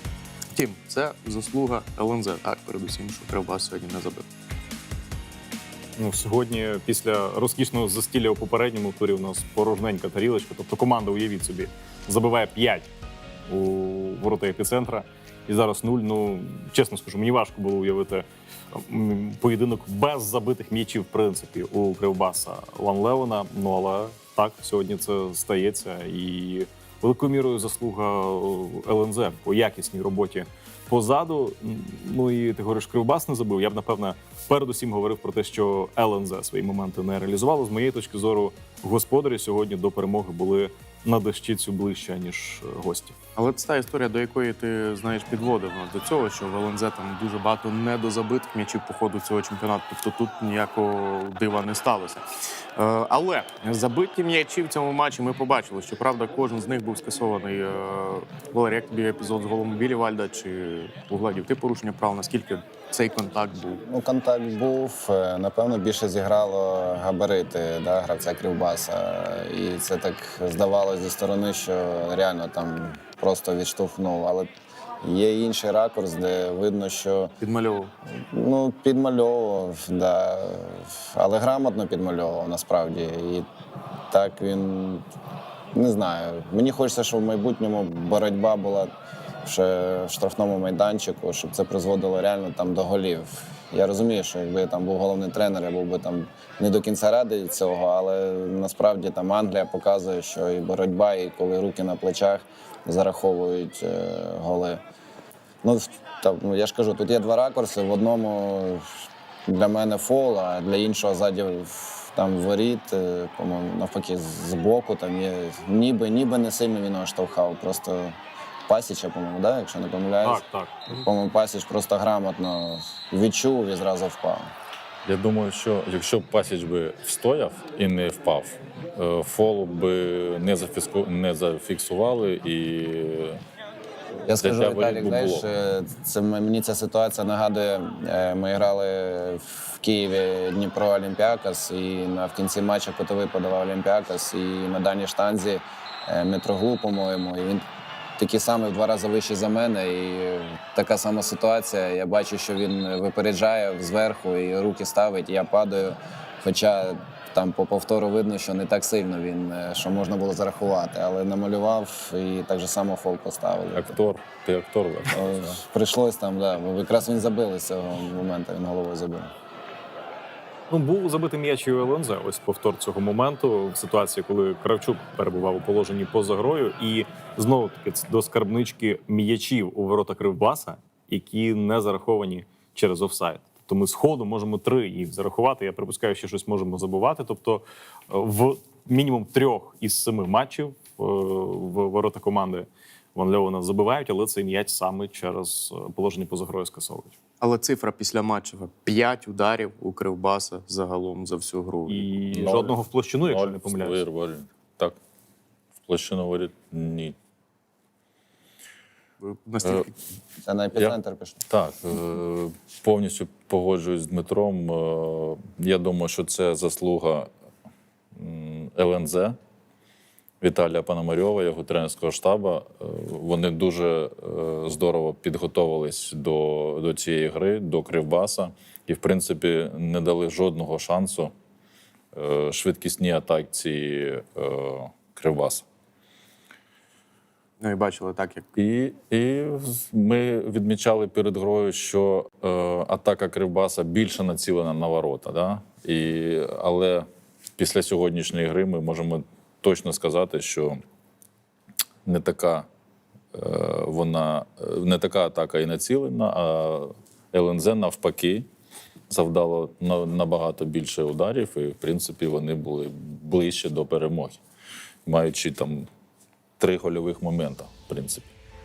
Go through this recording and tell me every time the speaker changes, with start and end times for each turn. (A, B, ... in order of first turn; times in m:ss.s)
0:00.6-0:04.2 A
0:06.0-0:12.9 B
0:13.5-0:43.2 B
0:43.4-0:52.2 A
0:52.8-1:03.8 A
1:03.8-1:14.5 C
1:15.0-1:17.3 C
1:17.4-1:17.9 A
1:18.2-1:23.4 C
1:24.1-1:25.0 C
1:25.7-1:28.9 C
1:29.4-1:44.8 C
1:45.6-1:48.9 C
1:49.5-1:58.2 C
1:58.7-2:04.5 C
2:00.2-2:01.0 B
2:05.0-2:13.4 D
2:14.3-2:27.7 C
2:14.3-2:15.5 D
2:28.2-2:44.0 C
2:43.8-2:45.6 D
2:45.1-2:49.3 C
2:50.7-3:17.2 B
3:17.4-3:22.1 A
3:21.9-3:24.0 B
3:22.3-3:25.0 D
3:25.8-3:27.2 D
3:29.2-3:29.9 A
3:30.4-3:31.4 C
3:31.5-3:37.3 D
3:38.2-3:39.4 D
3:40.4-3:51.3 D
3:52.1-3:55.6 D
3:57.6-3:58.5 A
3:58.6-4:07.1 D
4:07.6-4:10.8 D
4:12.0-4:12.7 D
4:13.3-4:18.5 D
4:19.1-4:24.4 D
4:25.1-4:25.9 D
4:26.6-4:28.3 D